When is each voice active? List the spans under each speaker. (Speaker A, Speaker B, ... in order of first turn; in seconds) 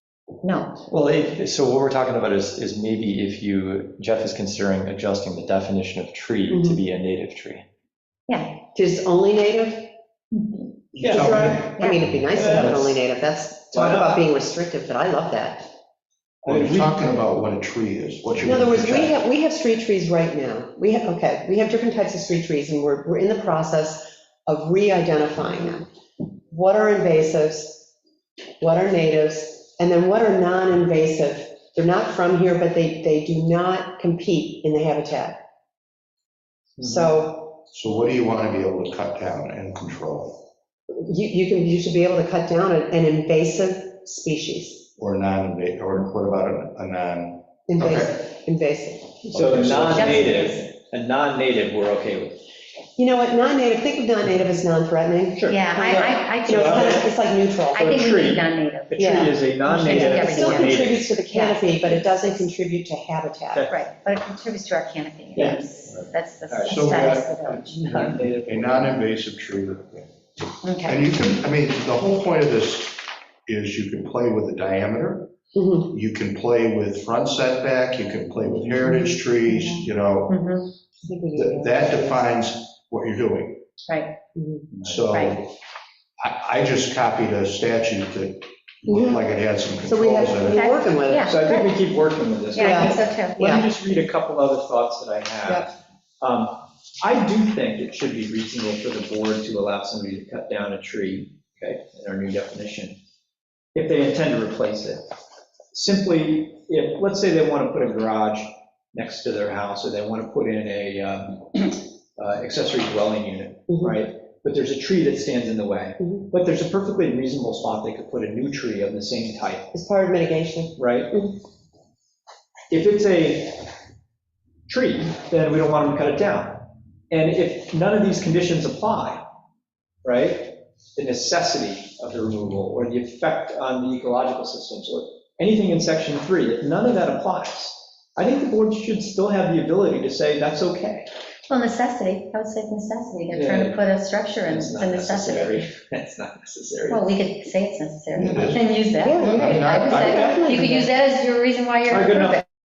Speaker A: 0.4-0.8, 8.3-8.6, 10.4-10.7, 11.4-12.0, 49.9-50.5, 55.5-57.1, 57.7-62.5, 63.7-68.2, 70.6-71.1, 80.3-80.7, 83.9-84.2, 85.1-85.4, 90.5-91.7, 92.5-93.4, 141.5-145.6, 146.9-152.4
Speaker B: 0.9-7.7
Speaker C: 6.5-6.8, 8.7-9.9, 11.0-15.7, 18.4-25.9, 26.5-27.9, 28.6-35.4, 36.8-37.6, 40.9-44.9, 47.7-49.3, 50.1-50.6, 53.0-58.0, 59.0-63.7, 75.5-75.9, 78.8-79.9, 81.0-82.2, 84.3-84.7, 88.9-89.3, 89.8-91.4, 92.6-93.7, 113.7-114.0, 116.0-116.3, 119.7-121.4, 149.0-150.9
Speaker D: 10.9-12.7, 16.4-19.1, 37.7-40.5, 45.0-48.1, 49.3-50.5, 65.9-70.1, 70.8-75.3, 75.9-80.4, 81.3-83.6, 84.8-85.6, 86.2-90.6, 148.1-150.5
Speaker E: 12.4-12.8, 13.8-14.2, 49.4-52.4, 56.6-57.1, 57.8-61.1, 65.4-65.7, 66.5-66.8, 67.9-68.6, 91.3-103.0, 103.8-105.0, 105.7-119.6, 120.8-121.1, 122.7-123.7, 124.7-129.3, 130.0-141.1, 143.3-143.8, 144.5-147.0, 151.9-152.4